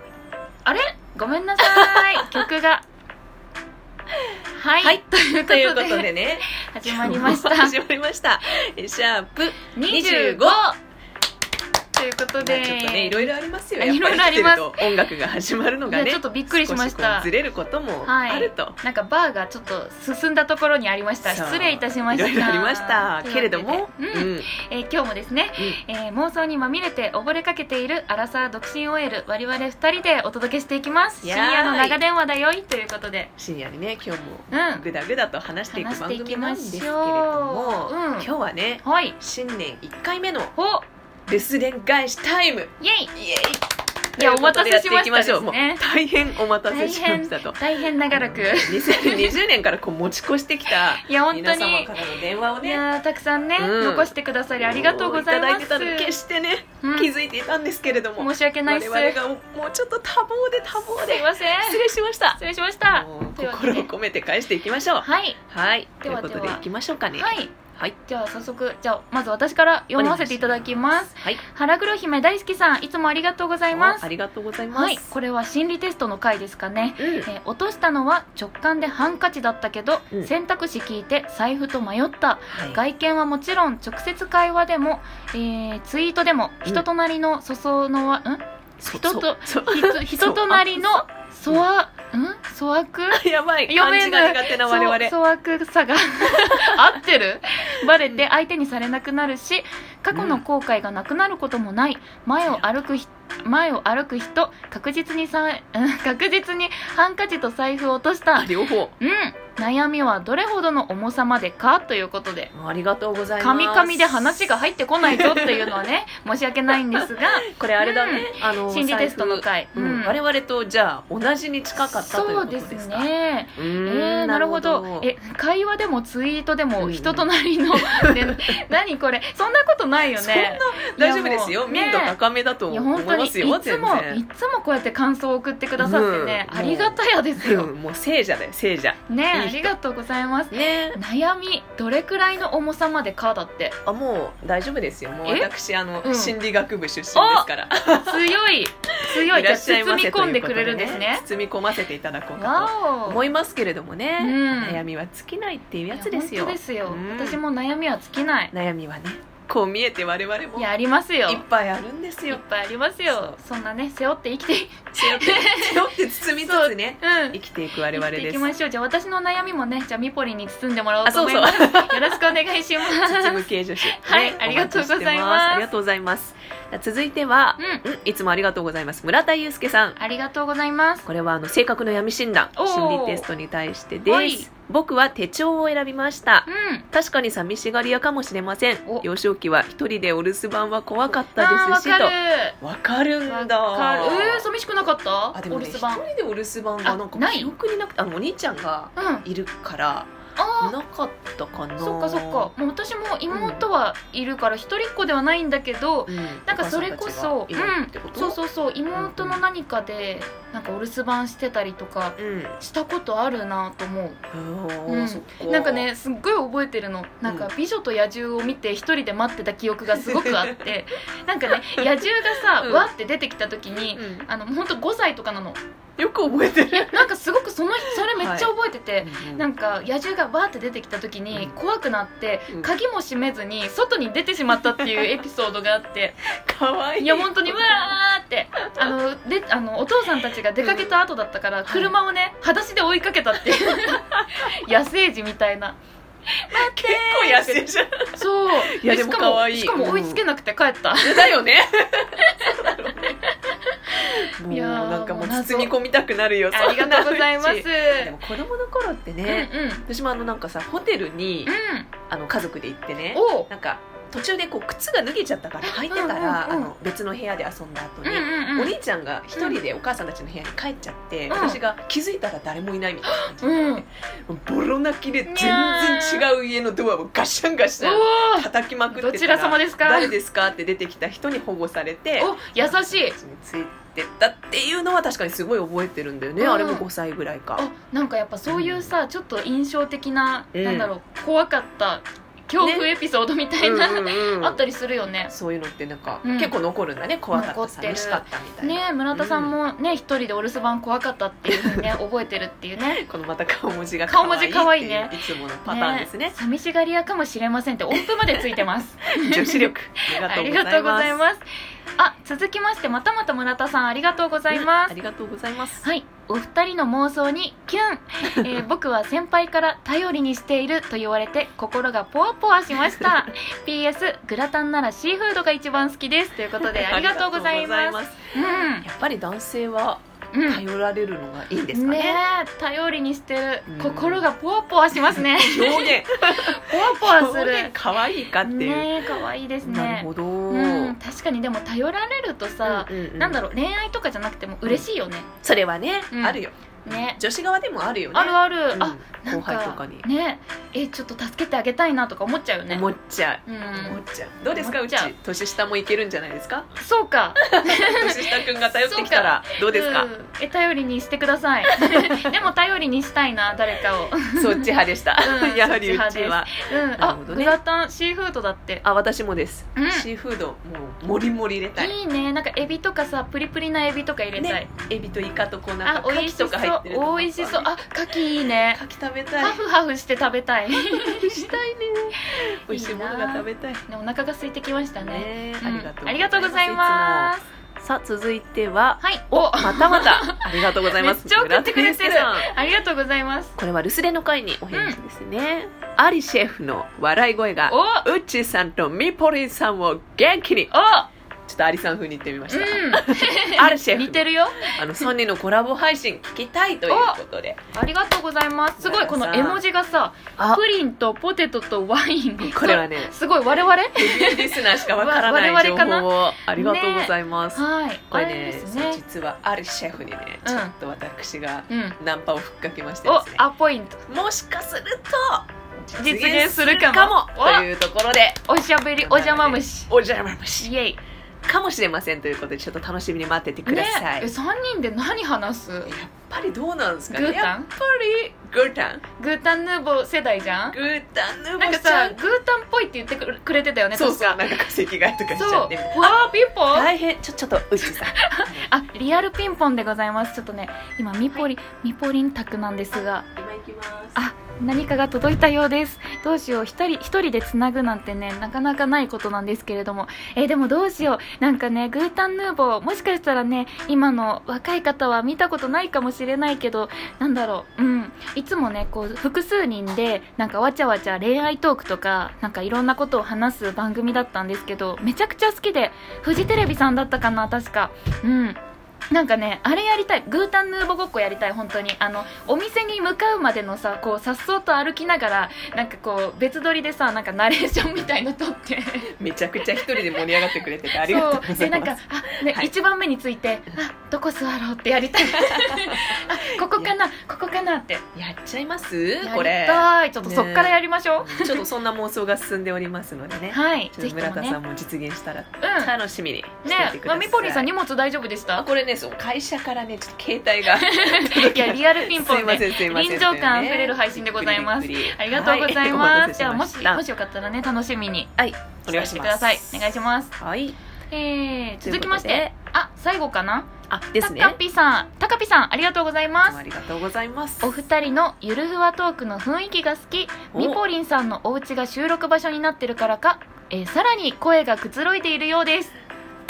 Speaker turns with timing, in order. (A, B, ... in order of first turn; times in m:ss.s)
0:00.6-0:02.8 A
0:01.6-0:02.5 B
0:04.5-0:07.8 A
0:04.8-0:10.7 B
0:09.7-0:10.8 A
0:12.0-0:15.1 A
0:12.4-0:18.8 B
0:15.9-0:17.3 A
0:18.0-0:33.3 A
0:21.2-0:24.5 B
0:31.2-0:32.0 B
0:33.4-0:40.5 B
0:34.5-0:34.9 A
0:35.7-0:38.3 A
0:38.8-0:39.2 A
0:40.6-0:40.8 A
0:41.3-0:43.6 B
0:42.8-0:43.1 A
0:44.2-0:47.6 B
0:44.2-0:45.8 A
0:46.7-0:49.4 A
0:48.1-0:52.8 B
0:50.7-0:56.2 A
0:53.6-1:08.0 B
0:56.8-0:57.1 A
0:58.2-0:59.2 A
1:00.7-1:01.8 A
1:02.4-1:03.9 A
1:05.0-1:05.4 A
1:06.0-1:06.6 A
1:07.2-1:14.1 A
1:10.0-1:11.4 B
1:13.7-1:15.1 B
1:14.7-1:52.5 A
1:17.0-1:17.3 B
1:22.5-1:22.8 B
1:28.8-1:31.7 B
1:33.1-1:35.2 B
1:36.3-1:37.0 B
1:38.0-1:38.2 B
1:40.1-1:40.4 B
1:48.4-1:48.9 B
1:52.5-1:54.5 B
1:53.4-2:00.2 A
1:55.0-1:55.8 B
1:56.7-2:05.1 B
2:01.8-2:12.2 A
2:06.8-2:08.4 B
2:10.2-2:14.2 B
2:12.7-2:17.7 A
2:15.8-2:19.7 B
2:19.1-2:23.8 A
2:20.5-2:21.0 B
2:23.9-2:28.3 B
2:26.0-2:26.4 A
2:27.2-2:27.5 A
2:28.0-2:31.2 A
2:29.0-2:37.4 B
2:32.4-2:33.3 A
2:34.2-2:34.8 A
2:35.9-2:38.5 A
2:38.5-2:40.7 B
2:40.6-2:41.4 A
2:41.3-2:42.4 B
2:42.3-2:45.9 A
2:43.1-2:43.4 B
2:45.0-2:48.5 B
2:46.4-2:55.7 A
2:51.0-2:52.3 B
2:52.9-3:00.0 B
2:57.6-2:57.8 A
3:00.0-3:01.1 A
3:01.1-3:14.5 B
3:02.6-3:03.3 A
3:04.1-3:04.5 A
3:06.5-3:06.9 A
3:11.2-3:12.6 A
3:13.3-3:16.0 A
3:15.3-3:22.5 B
3:16.8-3:17.5 A
3:19.0-3:19.2 A
3:20.4-3:20.8 A
3:21.8-3:34.2 A
3:23.3-3:23.6 B
3:26.1-3:28.4 B
3:29.0-3:29.4 B
3:32.2-3:32.6 B
3:34.3-3:35.9 B
3:34.9-3:45.6 A
3:39.9-3:40.6 B
3:42.6-3:42.9 B
3:43.7-3:44.3 B
3:46.0-3:47.1 B
3:46.7-3:56.2 A
3:48.0-3:49.5 B
3:54.6-3:55.1 B
3:56.4-3:57.9 B
3:57.0-4:05.8 A
4:00.6-4:01.0 B
4:01.6-4:01.9 B
4:06.4-4:07.6 A
4:06.5-4:10.2 B
4:08.2-4:11.4 A
4:11.0-4:13.2 B
4:12.2-4:15.7 A
4:14.2-4:21.5 B
4:16.5-4:18.2 A
4:19.3-4:19.8 A
4:21.5-4:21.9 A
4:22.1-4:47.7 B
4:23.1-4:23.5 A
4:25.6-4:26.7 A
4:28.0-4:28.7 A
4:31.3-4:31.6 A
4:33.0-4:33.8 A
4:35.3-4:36.3 A
4:37.8-4:40.1 A
4:42.2-4:43.2 A
4:46.4-4:46.9 A
4:47.6-4:55.3 A
4:48.5-4:48.9 B
4:50.5-4:50.9 B
4:52.6-4:52.9 B
4:53.6-4:54.6 B
4:55.3-4:59.6 B
4:56.2-4:56.5 A
4:57.3-5:03.0 A
5:01.5-5:01.9 B
5:03.0-5:06.4 B
5:04.1-5:11.4 A
5:09.2-5:11.2 B
5:12.0-5:14.9 A
5:14.5-5:15.8 B
5:15.8-5:28.9 A
5:26.6-5:32.2 B
5:30.3-5:30.6 A
5:31.7-5:37.8 A
5:33.7-5:34.2 B
5:35.1-5:41.0 B
5:38.4-5:45.3 A
5:42.6-5:43.4 B
5:45.4-5:50.1 B
5:46.1-5:47.2 A
5:48.1-5:52.9 A
5:52.7-5:56.7 B
5:53.5-5:54.0 A
5:54.5-5:55.1 A
5:56.8-6:08.8 A
5:57.4-6:00.1 B
6:01.7-6:02.3 B
6:04.4-6:07.6 B
6:08.8-6:12.0 B
6:09.8-6:10.1 A
6:11.8-6:14.7 A
6:14.4-6:17.8 B
6:15.8-6:18.8 A
6:18.7-6:19.6 B
6:19.4-6:21.6 A
6:20.7-6:23.8 B
6:22.2-6:27.4 A
6:25.0-6:32.5 B
6:29.0-6:33.6 A
6:33.6-6:40.7 B
6:34.7-6:35.0 A
6:37.7-6:38.0 A
6:40.7-6:41.1 A
6:41.5-6:47.6 B
6:42.5-6:45.1 A
6:46.9-6:47.2 A
6:47.7-6:59.0 A
6:48.8-6:49.6 B
6:50.4-6:50.6 B
6:52.4-6:53.2 B
6:53.9-7:03.4 B
7:00.4-7:00.7 A
7:01.7-7:02.0 A
7:03.0-7:04.0 A
7:04.1-7:08.4 B
7:06.0-7:07.7 A
7:08.5-7:09.9 A
7:09.0-7:10.7 B
7:10.6-7:11.0 A
7:11.4-7:14.3 B
7:13.7-7:15.9 A
7:15.8-7:19.0 B
7:17.1-7:17.7 A
7:19.2-7:20.8 A
7:20.7-7:22.2 B
7:21.6-7:24.4 A
7:23.9-7:26.2 B
7:25.4-7:26.9 A
7:26.7-7:28.7 B
7:27.8-7:33.3 A
7:33.3-7:34.2 B
7:34.2-7:58.6 A
7:59.1-8:09.1 A
8:09.2-8:12.7 B
8:11.0-8:18.0 A
8:15.3-8:16.9 B
8:18.1-8:27.7 B
8:19.2-8:21.7 A
8:23.5-8:24.6 A
8:25.6-8:25.9 A
8:26.6-8:28.7 A
8:28.6-8:37.0 B
8:30.7-8:38.3 A
8:38.4-8:40.8 B
8:38.9-8:40.3 A
8:41.1-8:46.6 A
8:41.8-8:42.5 B
8:43.9-8:44.6 B
8:46.4-8:47.7 B
8:47.6-8:55.9 A
8:50.5-8:50.8 B